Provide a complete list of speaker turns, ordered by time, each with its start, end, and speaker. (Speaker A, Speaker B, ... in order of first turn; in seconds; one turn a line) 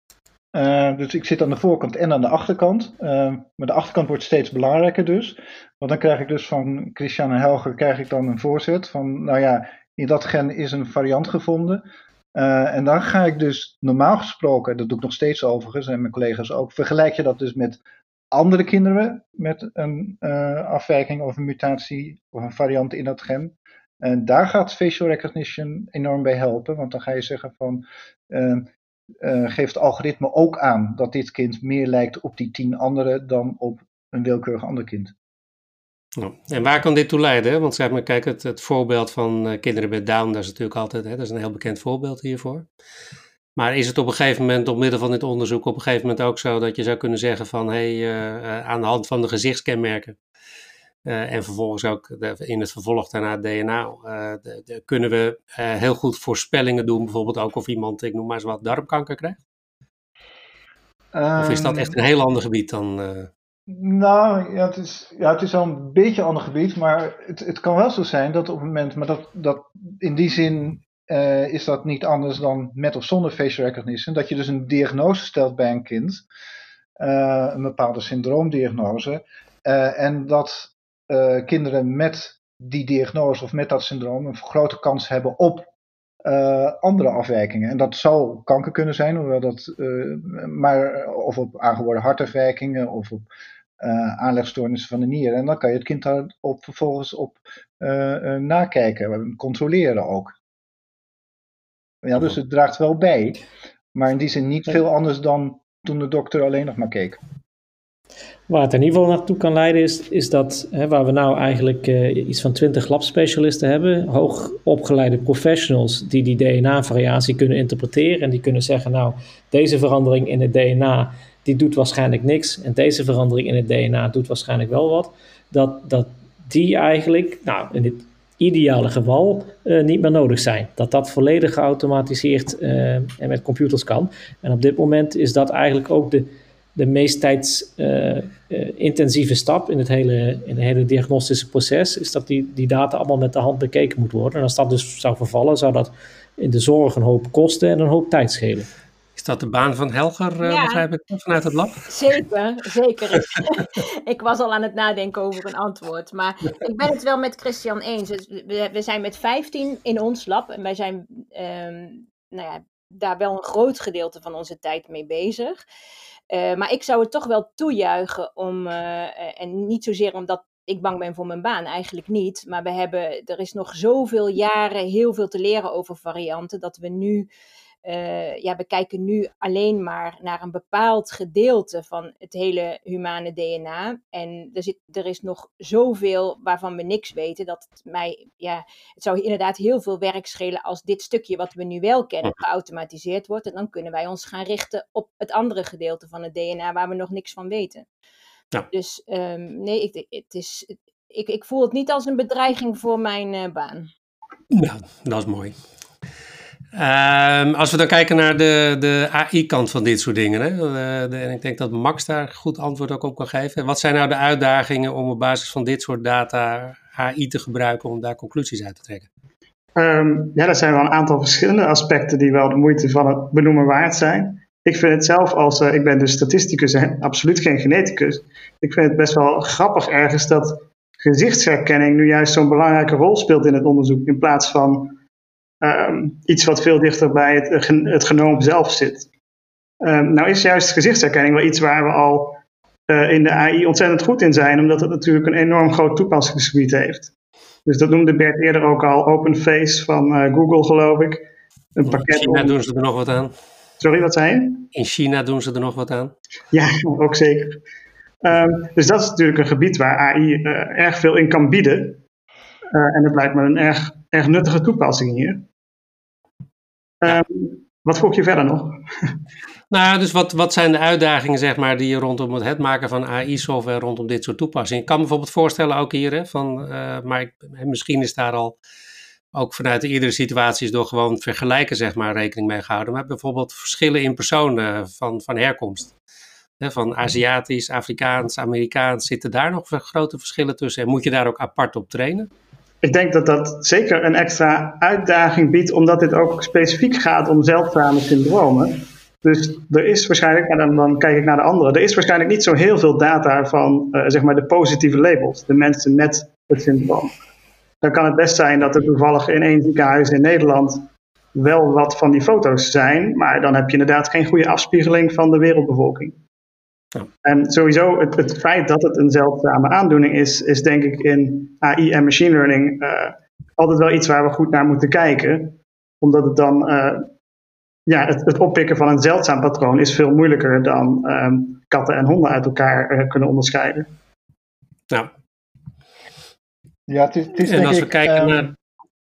Speaker A: 0.5-11.8
Speaker A: 12.3-17.8
Speaker A: 18.3-28.7
Speaker A: 29.2-35.1
Speaker B: 36.1-42.6
Speaker B: 43.5-50.2
Speaker B: 51.0-59.4
Speaker A: 61.1-62.0
Speaker B: 61.4-63.3
Speaker A: 63.7-76.2
Speaker A: 77.0-85.7
Speaker A: 86.2-93.2
Speaker A: 93.8-100.3
Speaker A: 102.0-107.2
Speaker C: 108.5-148.7
Speaker B: 149.2-151.9
Speaker D: 150.4-150.8
Speaker D: 151.9-165.6
Speaker D: 166.3-177.3
Speaker D: 177.8-197.8
Speaker D: 198.7-203.9
Speaker B: 204.5-205.6
Speaker B: 206.7-219.1
Speaker E: 219.8-235.0
Speaker E: 235.6-239.1
Speaker E: 239.8-247.1
Speaker E: 247.7-251.2
Speaker E: 251.8-252.6
Speaker B: 251.9-253.3
Speaker E: 253.8-254.7
Speaker B: 254.7-256.1
Speaker E: 256.5-257.6
Speaker E: 258.2-262.0
Speaker E: 262.7-265.4
Speaker E: 267.0-269.1
Speaker B: 269.7-278.5
Speaker B: 279.3-285.9
Speaker B: 286.6-292.3
Speaker E: 292.8-307.2
Speaker E: 307.8-316.2
Speaker E: 317.2-327.1
Speaker E: 327.9-333.9
Speaker A: 336.9-338.5
Speaker B: 337.4-338.5